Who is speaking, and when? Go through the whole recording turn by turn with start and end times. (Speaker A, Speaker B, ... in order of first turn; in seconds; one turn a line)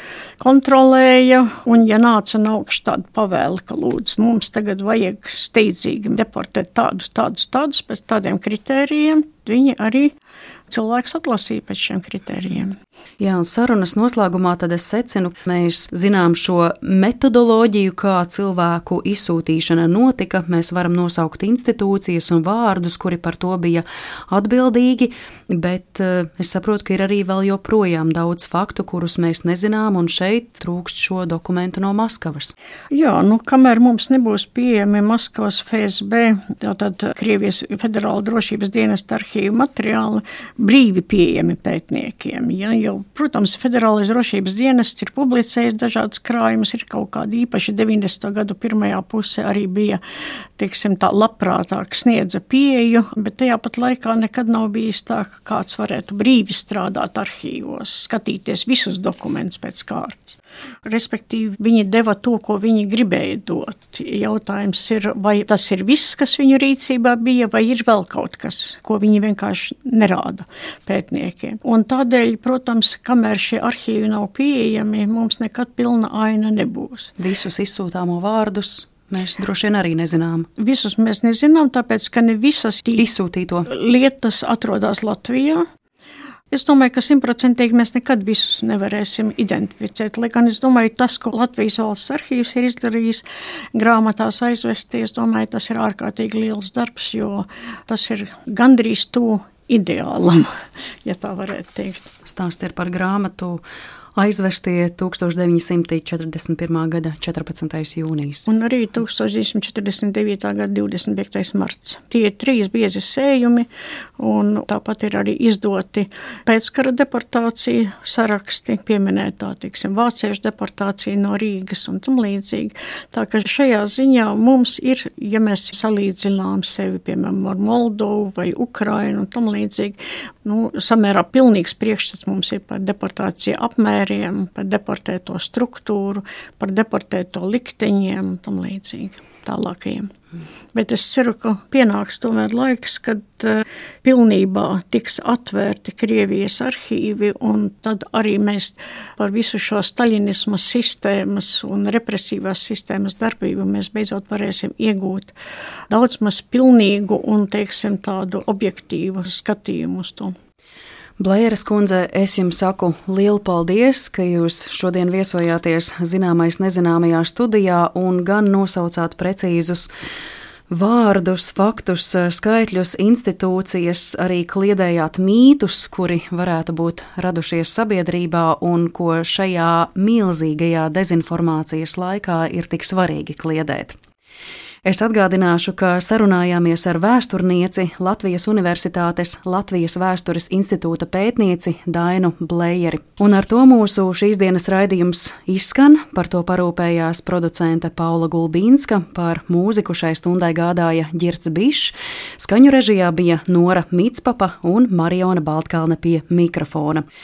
Speaker A: 0.4-10.2
Speaker A: 10.7-12.8
Speaker B: 13.2-32.5
Speaker A: 32.9-50.0
Speaker A: 50.6-77.1
Speaker B: 77.2-80.5
Speaker A: 80.6-83.0
Speaker B: 83.0-83.7
Speaker A: 83.7-85.7
Speaker A: 86.5-93.2
Speaker A: 93.8-100.5
Speaker A: 101.0-102.1
Speaker B: 102.2-103.6
Speaker B: 104.2-108.5
Speaker A: 108.5-113.7
Speaker A: 114.2-140.1
Speaker A: 140.7-155.3
Speaker A: 155.9-160.3
Speaker B: 161.2-169.9
Speaker B: 170.7-184.0
Speaker B: 184.8-207.1